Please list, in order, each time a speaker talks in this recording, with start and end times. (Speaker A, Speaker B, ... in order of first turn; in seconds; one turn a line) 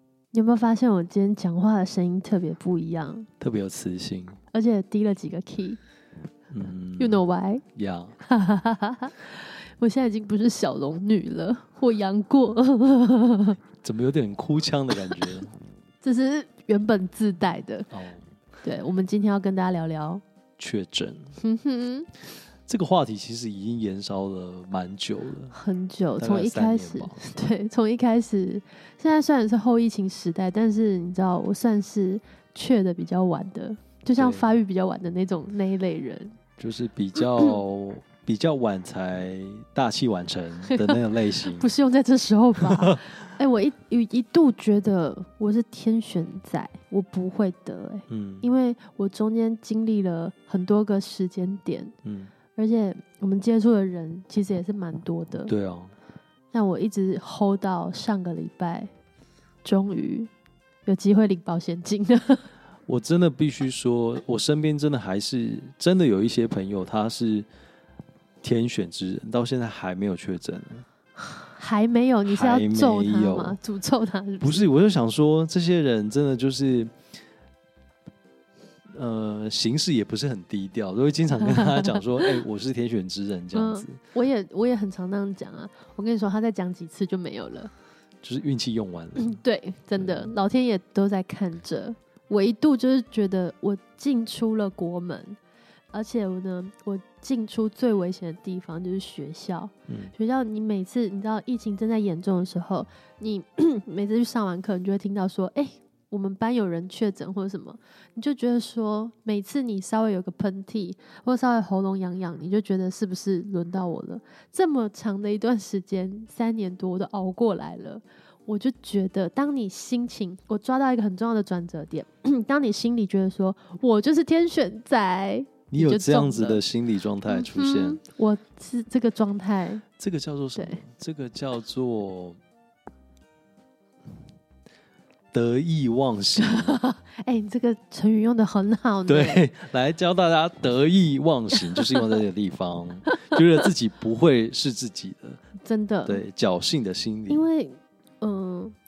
Speaker A: 0.3-3.3
Speaker B: 3.4-4.4
Speaker A: 4.5-5.8
Speaker B: 6.5-7.2
Speaker A: 7.0-7.6
Speaker B: 7.7-8.2
Speaker A: 8.2-13.6
Speaker B: 13.8-15.5
Speaker A: 16.0-17.9
Speaker B: 17.9-18.2
Speaker A: 18.6-20.2
Speaker B: 20.6-21.3
Speaker A: 21.4-22.1
Speaker B: 22.7-25.5
Speaker A: 25.5-36.4
Speaker B: 26.2-27.2
Speaker B: 34.2-34.5
Speaker B: 36.6-41.7
Speaker A: 40.6-51.9
Speaker B: 42.6-43.0
Speaker B: 48.1-48.5
Speaker B: 52.0-52.3
Speaker A: 52.5-55.5
Speaker B: 55.5-55.9
Speaker A: 56.5-58.9
Speaker A: 59.6-60.3
Speaker A: 60.9-62.5
Speaker B: 62.9-67.5
Speaker B: 68.4-70.8
Speaker A: 71.4-74.6
Speaker B: 72.2-73.6
Speaker B: 74.4-76.9
Speaker B: 78.9-84.0
Speaker A: 81.5-82.3
Speaker A: 83.5-87.7
Speaker B: 88.2-89.4
Speaker A: 89.2-95.4
Speaker B: 90.0-90.3
Speaker A: 95.9-126.6
Speaker B: 99.9-100.1
Speaker B: 125.7-128.0
Speaker A: 127.3-129.8
Speaker B: 130.0-132.4
Speaker B: 135.3-136.8
Speaker A: 136.4-139.5
Speaker B: 139.1-145.4
Speaker A: 141.8-142.0
Speaker A: 143.1-143.4
Speaker A: 145.6-146.2
Speaker B: 146.1-147.5
Speaker A: 147.3-148.7